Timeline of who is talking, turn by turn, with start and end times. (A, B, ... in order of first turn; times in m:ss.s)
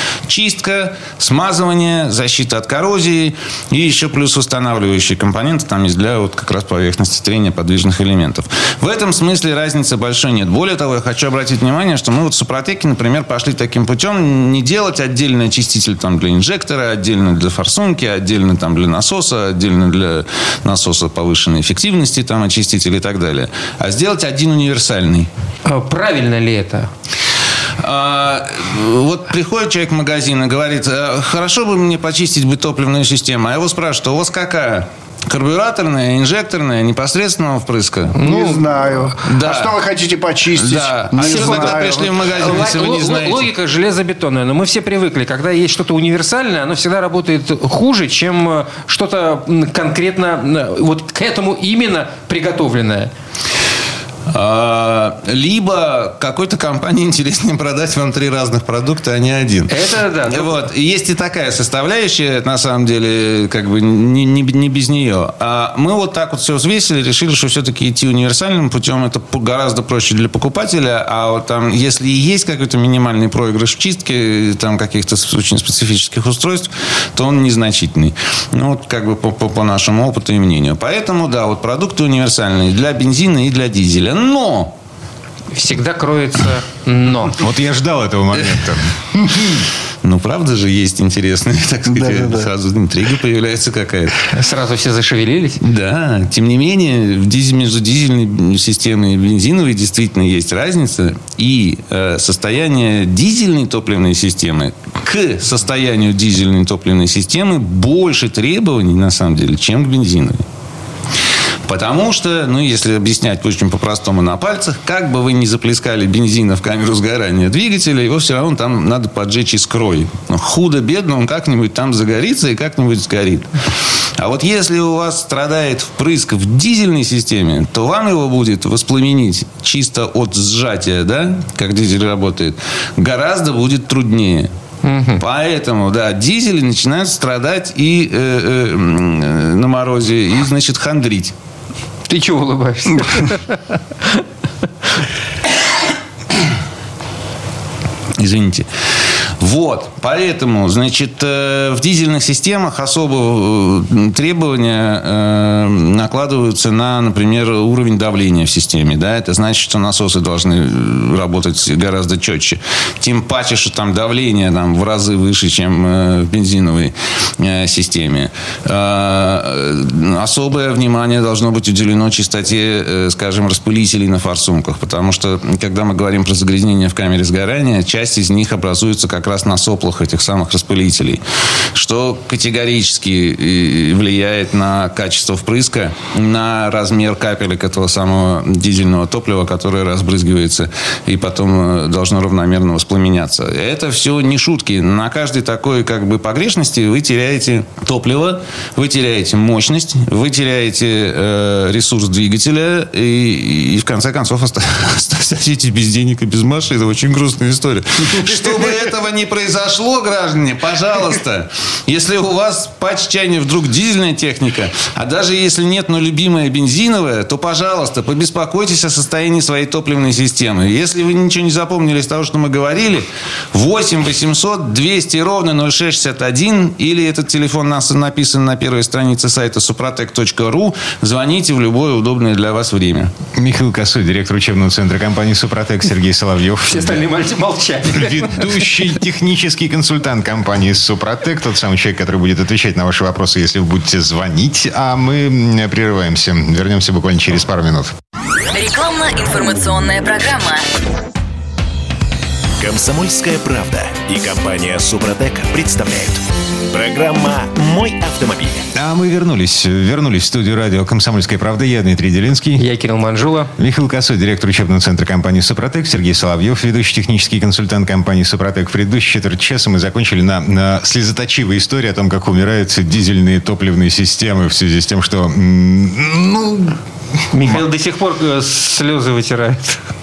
0:00.3-0:25.3 A
0:25.6-0:26.9 B
0:27.8-0:38.2 A
0:38.1-0:38.8 B
0:38.2-0:42.4 C
0:39.2-0:39.8 A
0:40.4-0:43.5 A
0:41.2-0:53.1 B
0:54.3-1:24.7 A
0:59.7-1:00.5 B
1:25.5-1:27.4 B
1:27.4-1:29.6 D
1:30.0-1:34.3 A
1:31.9-1:32.5 C
1:34.3-1:35.6 B
1:35.6-1:50.4 A
1:51.7-2:03.5 A
2:04.2-2:14.5 A
2:14.8-2:15.2 B
2:15.2-2:21.3 A
2:22.1-2:24.2 B
2:28.2-2:28.7 A
2:29.4-3:01.2 A
3:01.7-3:53.1 A
3:53.3-3:57.0 D
3:56.7-3:58.8 B
3:57.9-4:07.9 D
4:08.5-4:10.6 E
4:12.6-4:18.7 F
4:18.7-4:22.6 D
4:22.6-4:23.5 B
4:23.6-4:36.8 D
4:37.3-4:39.8 B